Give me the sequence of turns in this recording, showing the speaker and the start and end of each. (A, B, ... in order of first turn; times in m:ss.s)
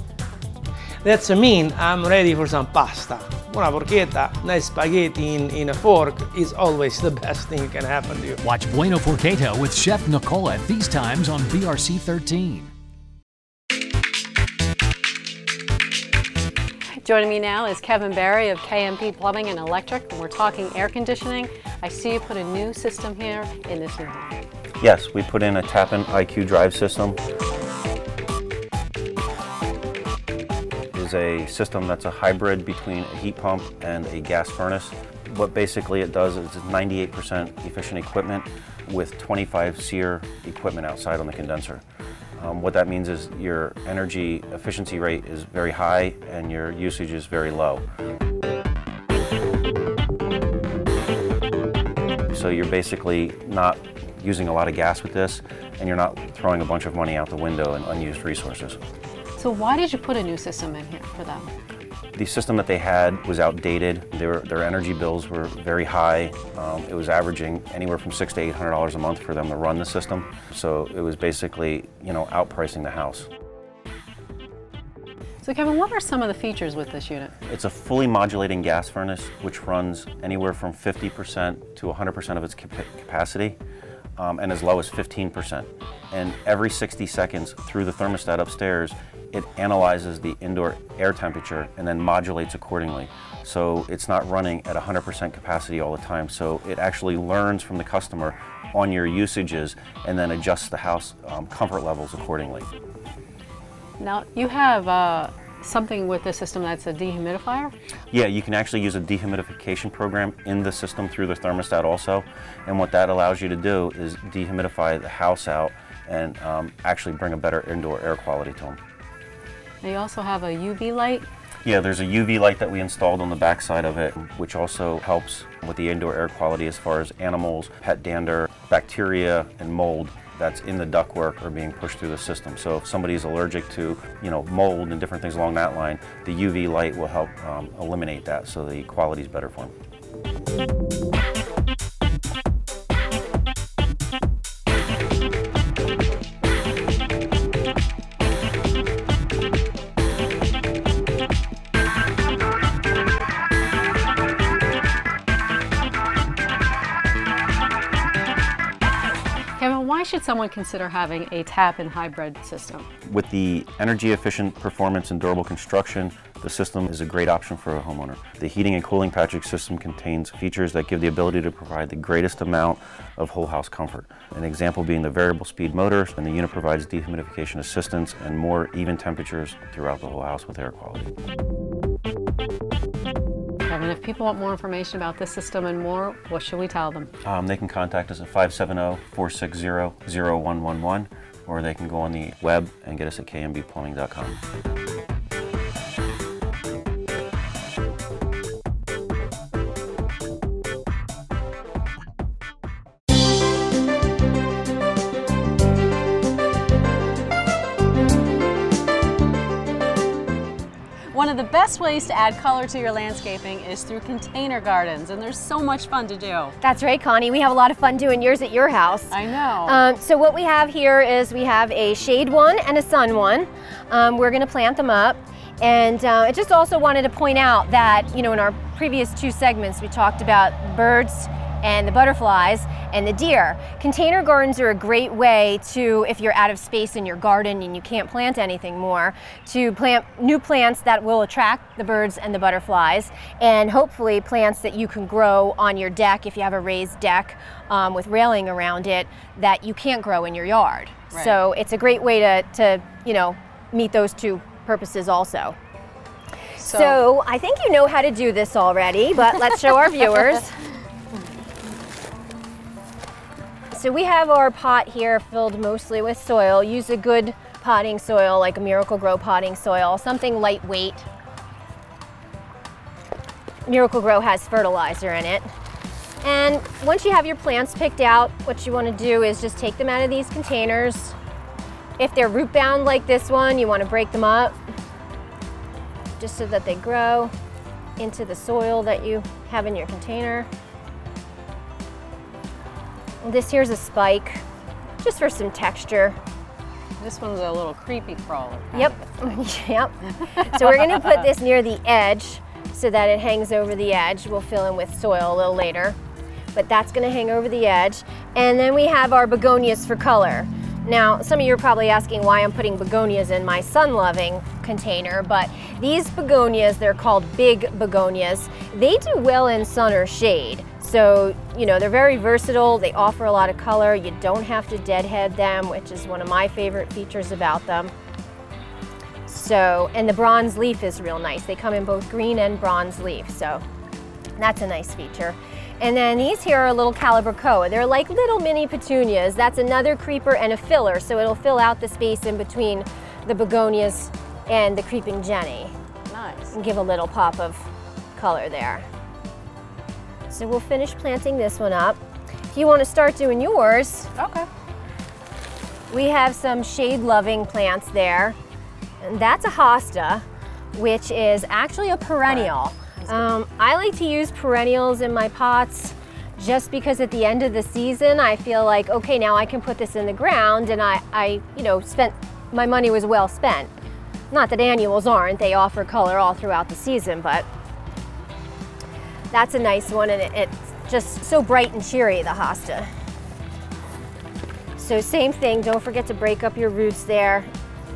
0:01.0-0:08.4 A
0:08.4-0:12.7 B
0:17.0-0:24.4 C
0:24.8-0:27.2 D
0:30.9-0:41.8 D
0:42.4-0:47.8 D
0:52.3-0:58.8 D
0:59.4-1:01.5 C
1:02.2-1:13.3 D
1:15.4-1:17.3 C
1:17.5-1:23.6 D
1:24.2-1:42.7 D
1:44.0-1:47.7 C
1:48.1-1:58.8 D
1:59.8-2:01.3 C
2:01.6-2:19.7 D
2:39.6-2:42.9 C
2:43.1-3:01.1 D
3:03.7-3:07.1 C
3:07.2-3:14.4 D
3:31.1-3:36.6 C
3:36.6-3:39.1 E
3:39.1-3:39.8 C
3:39.6-4:15.6 E
4:11.1-4:11.4 C
4:16.6-4:17.0 C
4:16.6-4:20.5 E
4:23.7-4:31.1 E
4:33.7-4:35.5 E
4:36.2-4:41.2 E
4:42.0-4:44.6 E
4:46.2-4:47.3 E
4:48.0-4:50.5 E
4:53.2-4:54.4 E
4:55.0-4:56.2 E
4:57.0-4:59.3 C
4:58.7-5:06.0 E
5:00.2-5:01.2 C
5:06.5-5:27.9 E
5:29.3-5:33.6 E
5:34.4-5:45.7 E
5:46.1-5:46.6 C
5:46.5-5:48.9 E
5:50.3-5:52.0 E
5:52.5-5:54.1 E
5:54.2-5:54.5 C
5:55.9-5:58.4 E
5:59.0-6:13.7 E
6:14.3-6:17.5 E
6:19.3-6:22.9 E
6:24.8-6:27.5 E